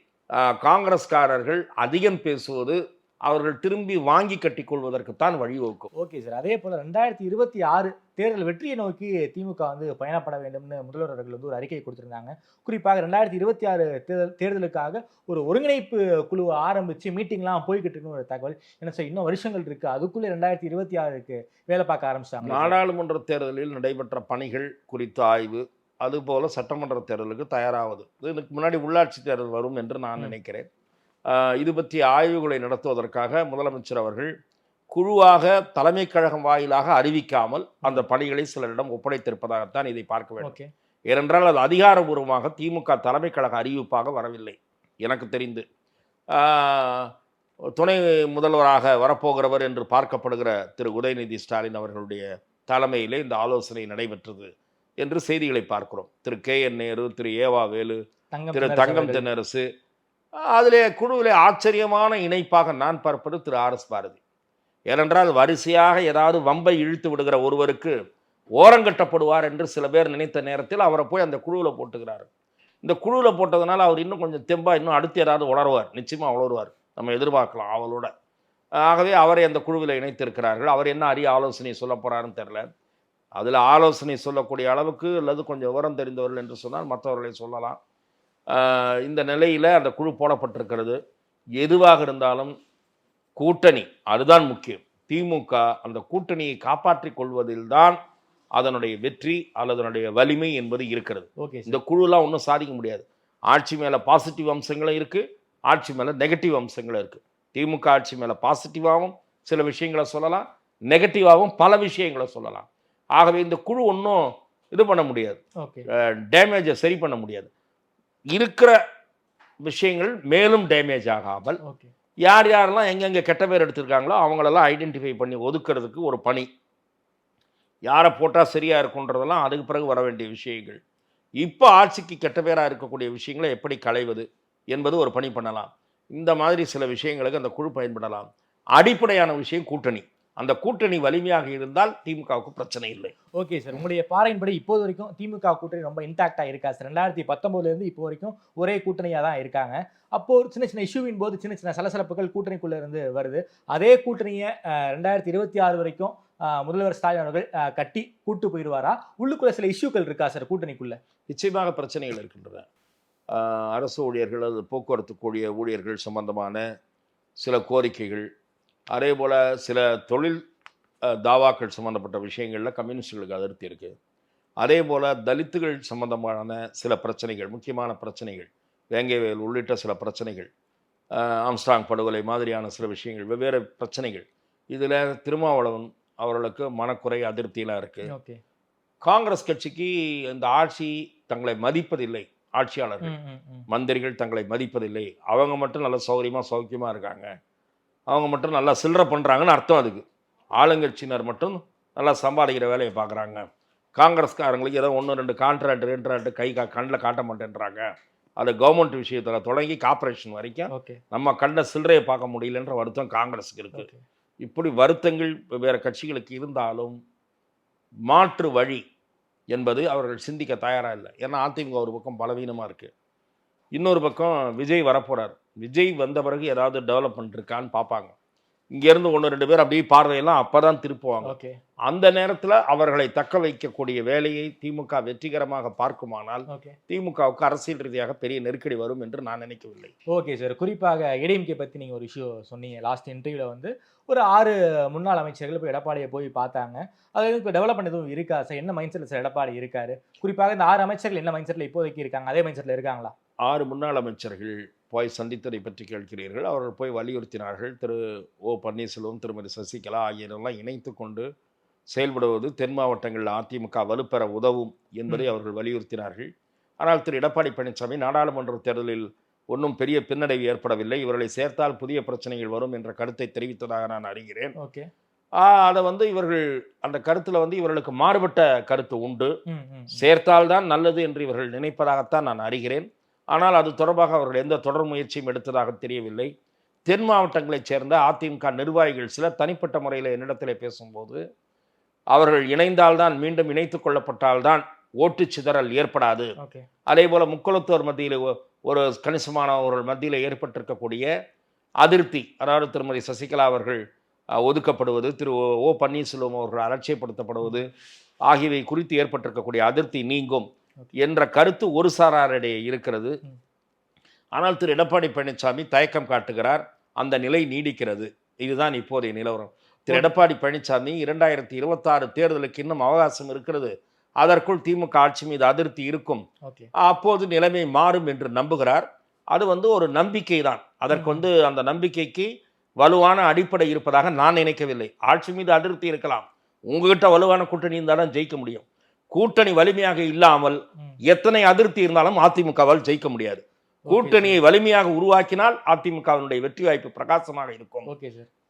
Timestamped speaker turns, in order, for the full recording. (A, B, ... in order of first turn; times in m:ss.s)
0:00.3-0:05.9 A
0:05.9-0:22.8 B
0:22.4-0:30.7 A
0:31.3-0:34.3 A
0:34.9-0:40.6 A
0:40.4-0:40.7 B
0:41.1-0:45.6 A
0:46.3-0:47.1 A
0:47.8-0:58.0 A
0:58.3-0:59.2 B
0:58.5-0:59.6 A
1:00.4-1:04.2 A
1:04.9-1:07.9 A
1:08.6-1:12.3 A
1:12.8-1:18.1 A
1:18.8-1:22.7 A
1:23.4-1:27.8 A
1:28.5-1:31.0 A
1:31.6-1:32.5 A
1:33.4-1:38.0 A
1:38.6-1:55.4 A
1:41.4-1:41.8 B
1:55.6-1:55.8 B
1:55.9-1:57.5 A
1:58.3-1:58.8 A
1:59.6-2:01.6 A
2:01.6-2:01.9 B
2:02.2-2:06.5 A
2:07.9-2:10.8 A
2:11.4-2:23.1 A
2:23.4-2:41.0 B
2:41.3-2:42.7 A
2:43.3-2:46.6 A
2:47.4-2:48.3 A
2:48.9-2:50.4 A
2:51.0-2:53.9 A
2:54.6-3:00.5 A
3:01.1-3:08.1 A
3:08.1-3:08.4 B
3:09.0-3:13.1 A
3:13.0-3:13.6 B
3:13.7-3:17.3 A
3:18.1-3:20.0 A
3:20.6-3:27.8 A
3:28.4-3:33.9 A
3:30.7-3:31.0 B
3:33.7-3:34.0 B
3:34.4-3:37.0 A
3:38.1-3:38.8 A
3:39.5-3:42.9 A
3:43.7-3:48.1 A
3:48.7-3:51.3 A
3:51.2-3:51.6 B
3:51.8-3:59.9 A
3:56.5-3:56.8 B
4:00.1-4:13.1 B
4:13.4-4:21.3 A
4:21.9-4:34.5 A
4:34.6-4:34.9 B
4:35.4-4:39.3 A
4:39.5-4:40.0 B
4:39.9-4:46.3 A
4:46.9-4:51.2 A
4:52.1-4:56.3 A
4:56.4-4:56.7 B
4:56.9-5:01.1 A
5:01.8-5:03.8 A
5:04.3-5:07.7 A
5:07.4-5:07.7 B
5:08.3-5:13.2 A
5:14.3-5:26.2 A
5:26.4-5:26.7 B
5:26.8-5:47.9 A
5:30.9-5:31.2 B
5:43.9-5:44.4 B
5:47.9-5:48.3 B